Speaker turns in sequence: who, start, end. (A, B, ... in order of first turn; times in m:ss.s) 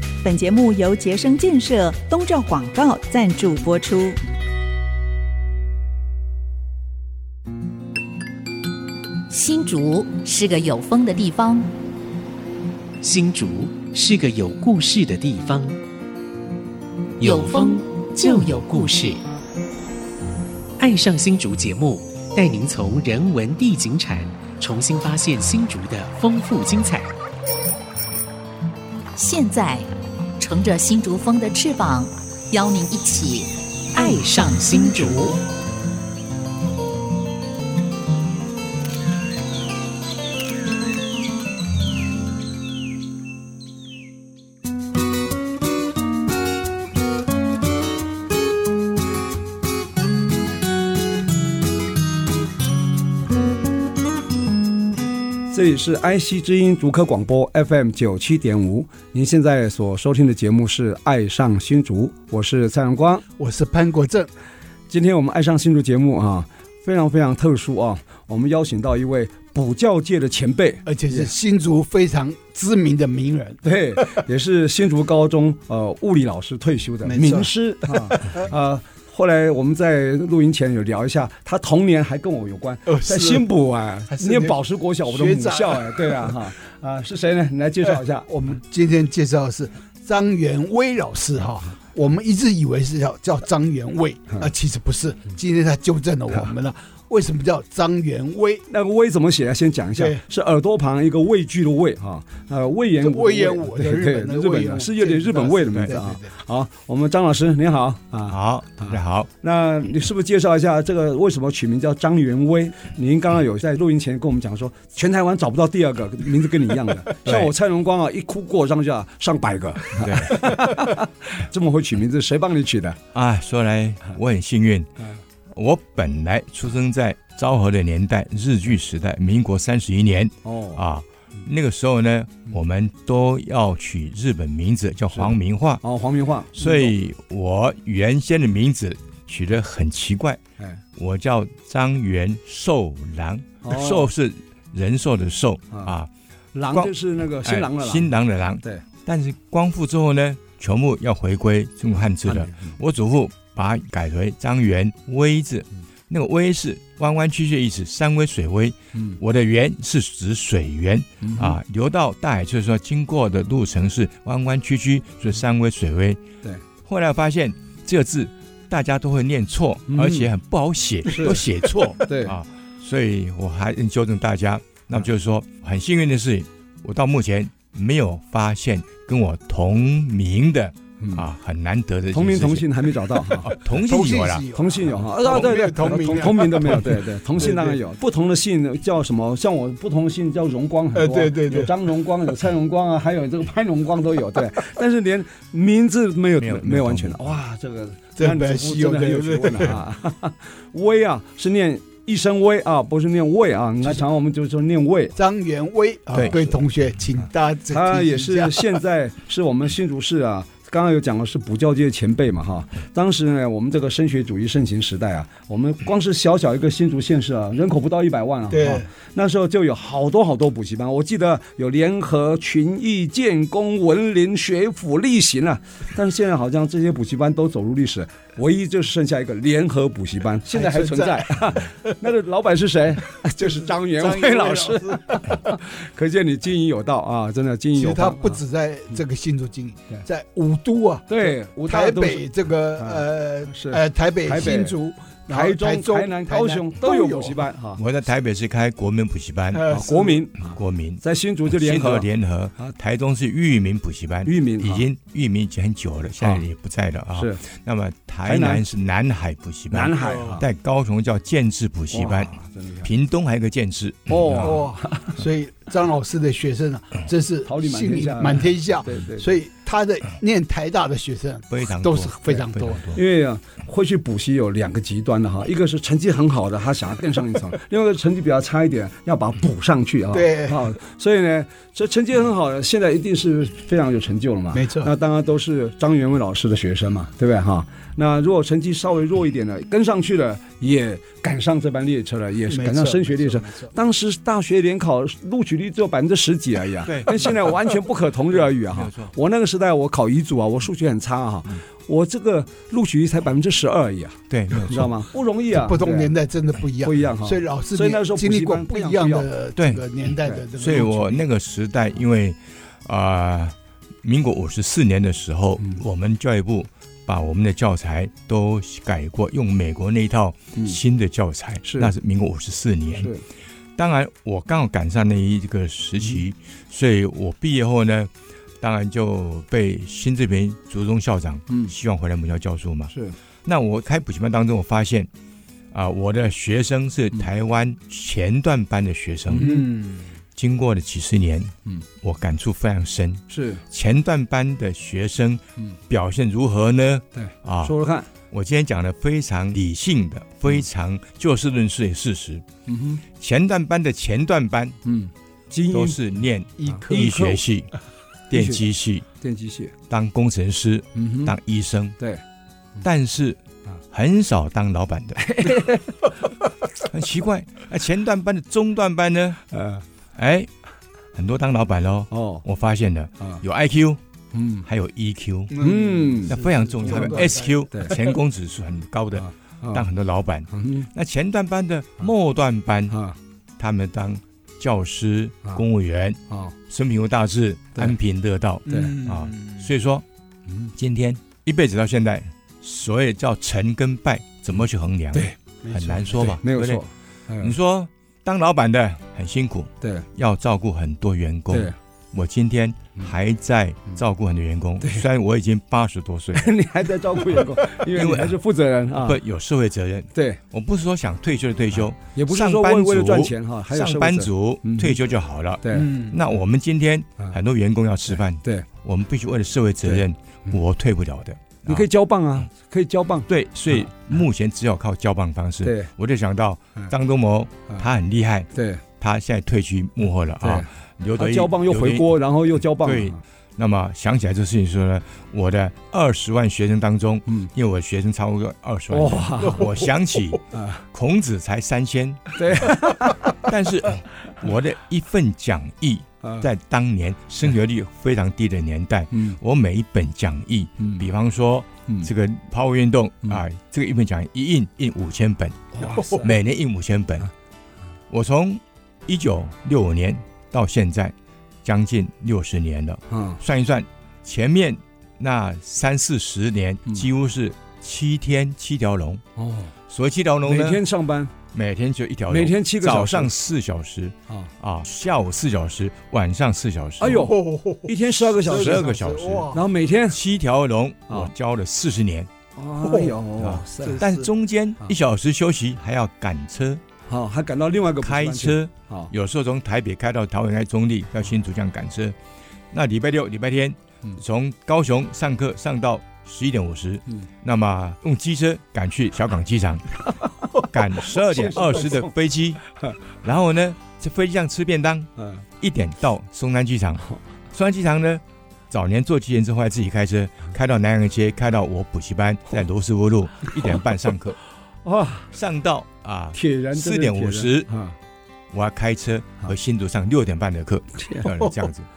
0:00.2-0:04.2 A
0:09.3-0:11.7 B
0:13.0-0:15.8 C
0:17.2-0:19.2 C
0:17.2-0:19.2 B
0:20.8-0:27.1 C
0:29.2-0:35.3 B
0:33.9-0:35.4 C
0:55.5-1:03.2 D
1:03.4-1:04.3 E
1:04.9-1:11.3 D
1:10.9-1:13.6 E
1:13.6-1:28.3 D
1:17.0-1:18.4 E
1:22.9-1:23.5 E
1:24.1-1:26.4 E
1:28.3-1:38.7 E
1:38.7-2:03.0 D
1:40.0-1:40.2 E
1:43.0-1:46.3 E
1:48.3-1:49.3 F
1:57.2-1:57.5 F
2:00.0-2:00.7 F
2:03.1-2:04.9 F
2:05.5-2:15.8 F
2:10.4-2:10.8 D
2:15.1-2:16.9 D
2:16.5-2:20.4 F
2:21.0-2:26.1 F
2:23.6-2:24.1 D
2:26.5-2:28.8 D
2:26.7-2:46.2 F
2:32.2-2:32.8 D
2:38.9-2:39.2 D
2:41.2-2:41.6 D
2:46.8-3:04.5 F
2:49.9-2:50.3 D
2:51.1-2:51.4 D
2:52.0-2:52.4 D
3:01.0-3:01.3 D
3:02.1-3:03.6 D
3:03.6-3:07.8 E
3:04.5-3:25.2 D
3:11.0-3:11.7 E
3:16.4-3:17.2 F
3:18.2-3:19.8 E
3:25.2-3:28.8 E
3:26.3-3:26.5 D
3:27.7-3:58.4 D
3:38.5-3:38.9 E
3:50.5-3:52.0 E
3:53.2-3:55.5 E
3:57.8-4:07.5 E
4:01.1-4:04.8 D
4:05.3-4:07.8 D
4:07.8-4:09.6 F
4:09.5-4:10.2 E
4:09.7-4:12.7 D
4:10.4-4:24.6 F
4:14.2-4:14.8 D
4:16.2-4:16.4 D
4:17.1-4:17.4 D
4:18.2-4:18.7 D
4:19.7-4:20.4 D
4:20.0-4:20.4 E
4:21.9-4:22.9 D
4:24.1-4:25.2 D
4:24.4-4:32.9 E
4:27.4-4:29.4 D
4:31.5-4:33.0 F
4:32.9-5:06.2 D
4:40.1-4:40.6 E
4:44.5-4:44.9 E
4:52.5-4:53.7 E
4:56.8-4:57.5 F
4:58.3-4:59.1 F
5:04.3-5:04.9 F
5:05.5-5:11.2 E
5:06.8-5:09.3 D
5:09.6-5:09.9 F
5:10.6-5:23.1 F
5:21.6-5:22.0 D
5:22.9-5:23.2 D
5:23.8-5:32.9 F
5:32.9-5:33.2 D
5:33.4-5:35.1 F
5:35.7-5:39.5 F
5:39.3-5:39.7 D
5:39.4-5:40.1 E
5:40.4-5:47.8 F
5:43.3-5:43.6 D
5:47.1-5:48.1 D
5:48.3-5:52.4 F
5:52.7-5:53.0 D
5:53.2-5:54.8 F
5:54.8-5:56.0 D
5:55.7-5:57.7 F
5:56.6-5:57.2 E
5:56.7-5:57.4 D
5:58.3-5:59.1 F
5:58.3-5:58.6 D
5:59.2-5:59.7 D
5:59.9-6:02.0 F
6:01.0-6:01.4 D
6:02.8-6:05.7 F
6:05.2-6:06.0 D
6:06.9-6:09.4 F
6:09.5-6:09.8 D
6:10.2-6:10.5 F
6:11.1-6:14.0 F
6:12.1-6:12.4 D
6:14.3-6:14.7 D
6:14.6-6:15.6 F
6:15.5-6:17.8 E
6:15.6-6:16.4 D
6:16.3-6:23.0 F
6:17.7-6:18.0 D
6:19.2-6:19.9 D
6:20.5-6:20.9 D
6:22.9-6:23.2 D
6:23.6-6:30.0 F
6:26.3-6:26.6 D
6:28.7-6:29.7 E
6:28.7-6:29.0 D
6:30.8-6:36.8 F
6:35.6-6:36.3 E
6:36.1-6:37.6 D
6:37.4-6:46.6 F
6:39.8-6:40.1 D
6:41.5-6:41.8 D
6:46.4-6:49.2 D
6:47.4-6:48.4 F
6:48.9-7:01.9 F
6:50.1-6:50.4 D
6:52.0-6:55.0 D
6:55.6-6:55.9 D
6:55.7-6:56.2 E
6:58.1-6:58.7 D
6:59.8-7:00.6 D
7:01.7-7:03.9 D
7:03.3-7:12.2 F
7:05.6-7:05.9 D
7:08.5-7:08.8 D
7:10.4-7:13.2 D
7:12.8-7:37.3 F
7:18.9-7:19.7 D
7:20.5-7:20.8 D
7:22.4-7:23.4 D
7:26.2-7:26.5 D
7:29.1-7:29.4 D
7:30.8-7:31.1 D
7:35.7-7:36.4 D
7:38.1-7:49.2 F
7:43.1-7:43.4 D
7:49.4-7:49.7 D
7:49.9-7:50.8 F
7:50.5-7:51.3 D
7:51.5-7:57.3 F
7:52.3-7:53.4 D
7:57.0-7:59.0 D
7:57.1-7:57.9 E
7:58.4-8:02.3 F
7:58.5-7:59.6 E
7:59.5-8:00.2 D
8:02.6-8:04.0 D
8:02.9-8:03.2 E
8:03.4-8:06.8 F
8:03.8-8:04.3 E
8:07.1-8:09.1 D
8:08.0-8:12.2 F
8:12.7-8:34.4 F
8:21.0-8:22.1 D
8:25.2-8:25.4 D
8:34.8-8:35.3 D
8:35.3-8:37.7 F
8:36.3-8:38.0 D
8:38.5-8:41.9 F
8:41.0-8:41.3 D